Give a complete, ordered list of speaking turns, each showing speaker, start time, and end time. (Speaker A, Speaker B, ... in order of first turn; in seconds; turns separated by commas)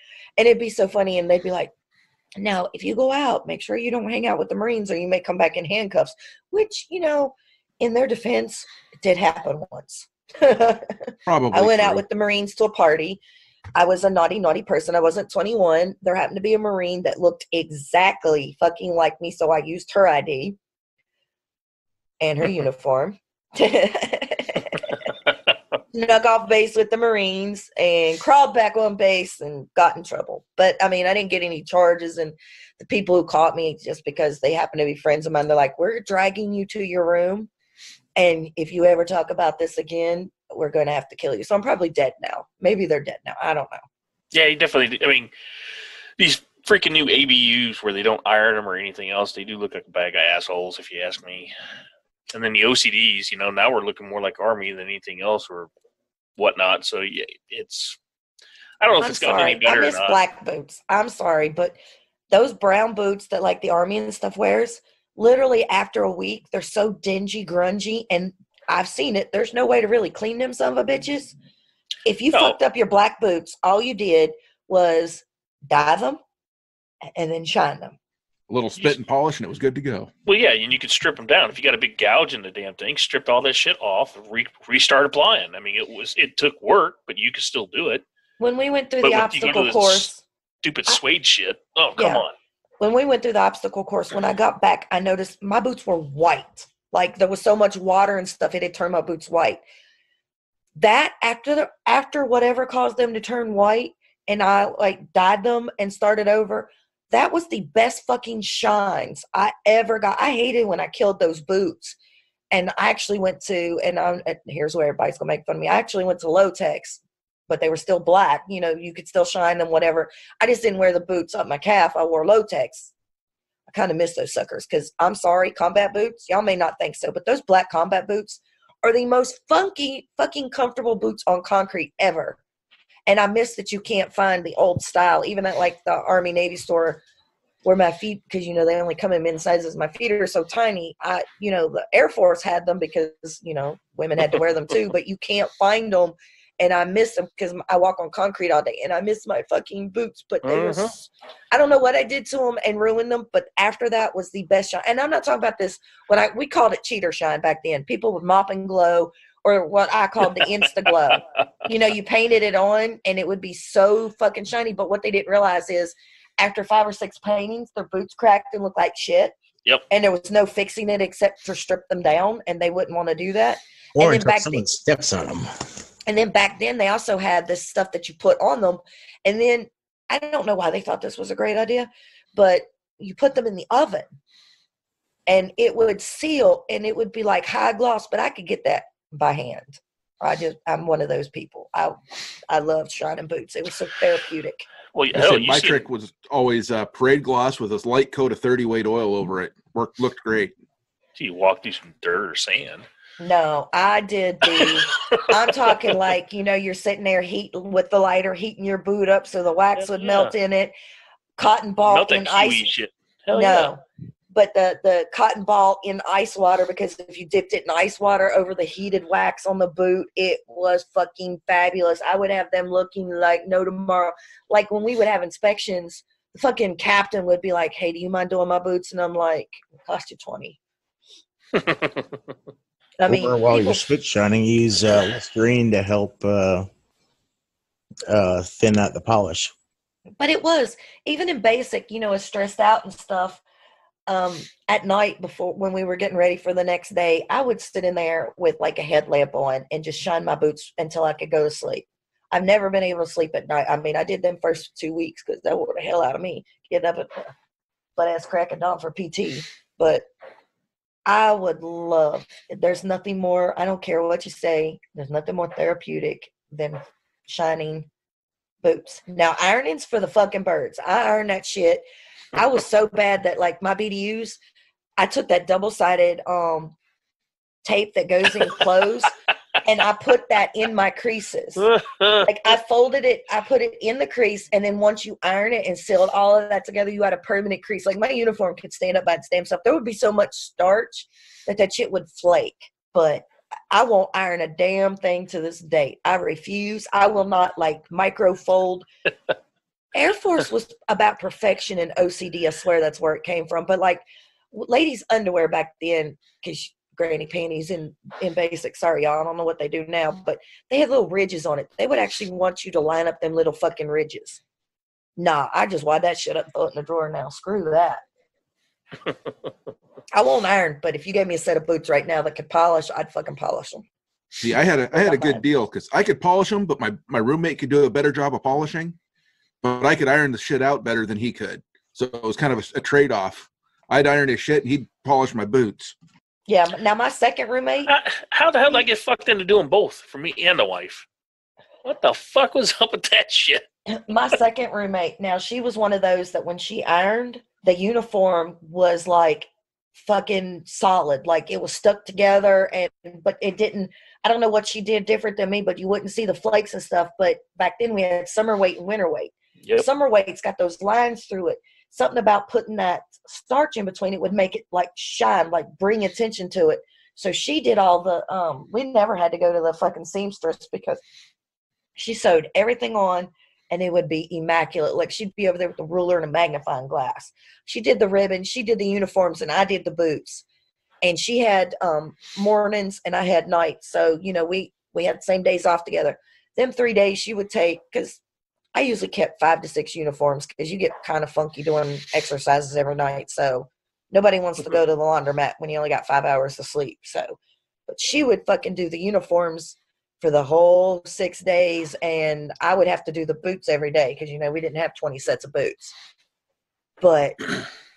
Speaker A: 0.4-1.7, Speaker A: 2.4-13.2, Speaker B: 11.3-12.0, Speaker A: 13.8-20.6, Speaker A: 22.2-24.8, Speaker A: 25.9-37.5, Speaker A: 38.2-43.8, Speaker C: 44.3-45.3, Speaker C: 46.2-51.5, Speaker C: 52.3-55.7, Speaker C: 56.4-58.0, Speaker C: 58.8-60.2, Speaker A: 59.0-61.8, Speaker A: 62.3-71.3, Speaker A: 72.0-76.2, Speaker A: 77.2-78.0, Speaker B: 78.5-80.1, Speaker C: 80.2-88.0, Speaker A: 88.4-90.2, Speaker C: 89.0-90.1, Speaker C: 90.6-92.3, Speaker A: 92.0-92.2, Speaker A: 92.8-99.6, Speaker A: 100.8-112.0, Speaker A: 112.5-122.9, Speaker A: 123.7-132.4, Speaker A: 133.1-137.0, Speaker A: 137.6-169.3, Speaker C: 150.4-150.9, Speaker A: 169.9-174.7, Speaker D: 173.9-175.5, Speaker A: 176.1-184.1, Speaker A: 185.3-192.0, Speaker A: 192.5-194.7, Speaker C: 194.9-195.9, Speaker B: 195.1-200.6, Speaker C: 201.2-202.9, Speaker A: 203.2-210.7, Speaker C: 204.6-205.8, Speaker C: 209.8-210.3, Speaker A: 211.4-212.7, Speaker C: 211.9-213.7, Speaker A: 213.3-213.8, Speaker A: 214.3-230.6, Speaker C: 231.6-232.1, Speaker A: 233.0-233.8, Speaker D: 233.1-236.7, Speaker D: 238.1-239.5, Speaker A: 240.2-243.4, Speaker A: 244.1-257.3, Speaker A: 258.0-260.0, Speaker A: 261.1-267.9, Speaker A: 268.6-274.4, Speaker A: 275.0-276.8, Speaker A: 277.6-279.1, Speaker A: 279.6-281.7, Speaker C: 281.6-282.3, Speaker A: 282.2-298.9, Speaker A: 299.9-314.4, Speaker A: 315.2-318.0, Speaker A: 320.1-323.8, Speaker B: 324.4-329.0, Speaker A: 324.9-325.4, Speaker B: 329.6-335.9, Speaker A: 336.5-337.9, Speaker C: 337.9-341.1, Speaker C: 341.8-343.6, Speaker A: 343.9-371.0, Speaker A: 372.0-380.4, Speaker A: 381.0-388.2, Speaker A: 388.7-397.4, Speaker A: 397.9-405.9, Speaker A: 407.0-407.5